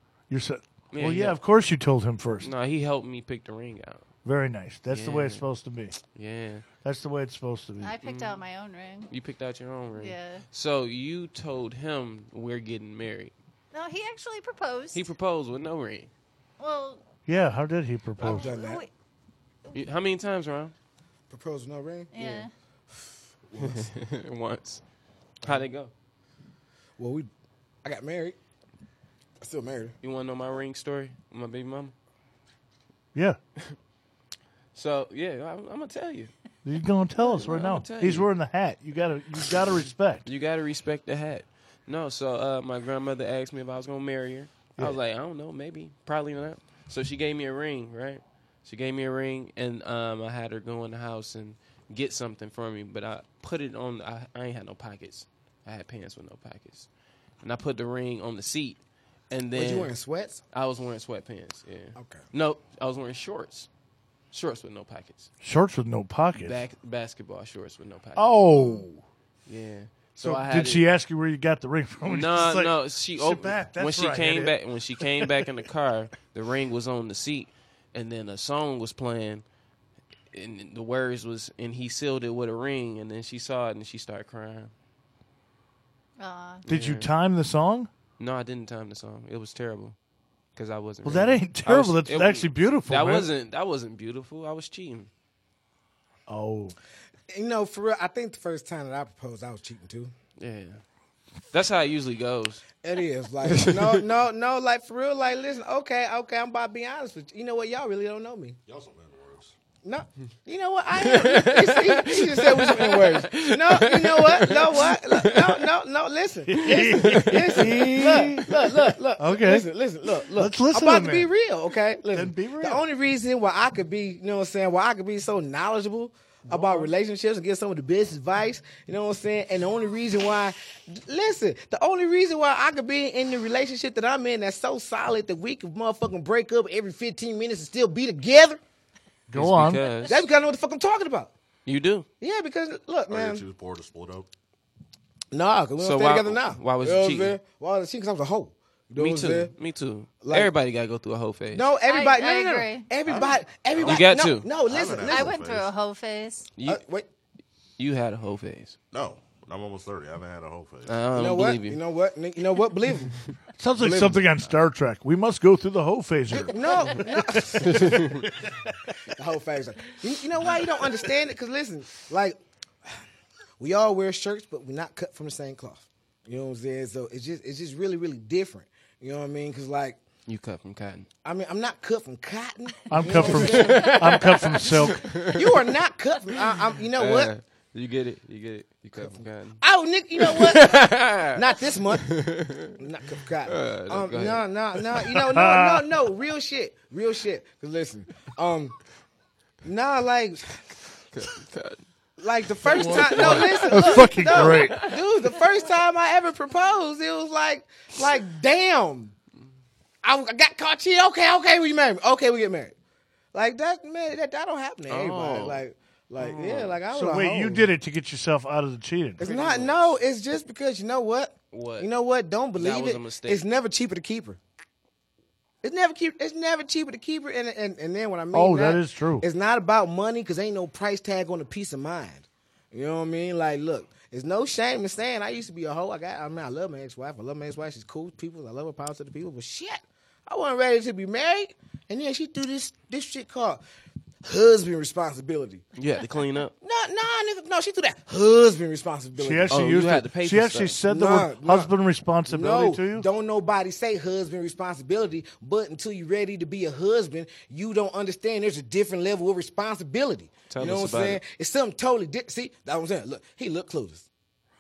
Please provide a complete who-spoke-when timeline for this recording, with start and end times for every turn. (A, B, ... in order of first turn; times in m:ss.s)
0:00.3-0:02.5 A
0:00.9-0:01.4 B
0:02.4-0:04.1 B
0:04.2-0:06.0 A
0:04.9-0:05.5 B
0:06.1-0:06.7 B
0:06.8-0:07.9 A
0:07.8-0:09.1 C
0:08.0-0:08.4 B
0:09.1-0:13.3 B
0:10.0-0:10.5 C
0:13.7-0:15.1 C
0:14.9-0:16.1 B
0:16.6-0:17.0 C
0:17.3-0:18.5 A
0:18.2-0:18.9 C
0:18.2-0:18.8 D
0:19.7-0:20.7 B
0:21.3-0:22.4 D
0:22.1-0:22.5 C
0:23.5-0:23.9 D
0:23.6-0:24.8 B
0:25.4-0:25.9 B
0:27.0-0:27.3 D
0:27.8-0:28.4 D
0:29.4-0:30.0 D
0:30.0-0:31.9 B
0:33.1-0:33.4 A
0:34.7-0:36.3 B
0:36.6-0:40.2 A
0:37.2-0:38.3 B
0:39.4-0:56.9 B
0:57.4-0:59.9 B
0:59.6-1:00.4 D
1:00.5-1:03.7 B
1:02.0-1:02.3 D
1:04.3-1:05.3 B
1:05.4-1:06.6 A
1:06.4-1:08.4 B
1:08.2-1:09.0 A
1:08.5-1:08.9 C
1:09.5-1:10.9 B
1:10.2-1:15.3 A
1:12.0-1:19.4 B
1:20.3-1:24.7 B
1:26.2-1:26.6 C
1:26.7-1:27.1 B
1:26.7-1:27.9 A
1:28.2-1:30.0 B
1:30.6-1:35.1 B
1:31.0-1:33.3 A
1:36.3-1:36.8 A
1:37.3-1:40.1 D
1:40.4-1:40.8 B
1:41.5-1:42.6 B
1:42.8-1:48.6 D
1:43.5-1:44.0 B
1:48.7-1:49.5 E
1:49.8-2:18.6 D
1:51.0-1:55.7 B
1:56.5-1:59.7 A
1:56.5-1:58.2 B
2:00.3-2:01.3 A
2:02.1-2:02.9 A
2:06.5-2:06.9 A
2:19.3-2:19.8 A
2:19.3-2:20.2 B
2:20.0-2:21.3 D
2:21.7-2:22.1 B
2:22.2-2:23.4 D
2:23.1-2:24.3 E
2:25.3-2:29.5 D
2:25.8-2:27.4 B
2:29.0-2:31.7 B
2:30.2-2:30.5 D
2:31.5-2:35.4 D
2:31.8-2:32.9 C
2:33.1-2:34.0 E
2:33.8-2:34.5 B
2:34.6-2:35.7 E
2:35.1-2:36.5 C
2:36.6-2:36.8 B
2:36.6-2:37.1 D
2:37.8-2:38.8 B
2:38.9-2:41.0 E
2:40.9-2:41.8 B
2:41.1-2:43.2 D
2:43.6-2:48.1 A
2:43.8-2:44.3 D
2:46.3-2:48.1 D
2:47.6-2:48.2 B
2:49.1-2:52.4 D
2:53.6-3:00.0 D
3:00.3-3:01.1 B
3:01.2-3:04.5 D
3:02.9-3:05.1 A
3:03.0-3:05.6 B
3:05.2-3:07.3 D
3:06.8-3:09.6 B
3:09.0-3:12.1 D
3:10.2-3:12.8 B
3:12.8-3:18.8 D
3:13.4-3:15.0 B
3:15.2-3:15.9 A
3:19.6-3:20.5 D
3:21.1-3:21.8 B
3:22.2-3:29.2 D
3:22.6-3:25.0 B
3:22.8-3:24.8 A
3:30.0-3:32.8 D
3:33.3-3:37.7 D
3:34.9-3:35.6 B
3:36.2-3:36.9 B
3:36.9-3:39.3 A
3:39.2-3:44.4 D
3:39.2-3:40.0 B
3:41.5-3:41.9 B
3:42.6-3:43.4 B
3:45.6-4:03.6 D
3:48.3-3:49.3 A
4:04.2-4:05.6 D
4:05.8-4:06.5 B
4:06.6-4:09.6 D
4:09.2-4:13.1 A
4:09.5-4:10.8 B
4:10.9-4:11.7 D
4:12.2-4:24.1 D
4:20.5-4:21.2 B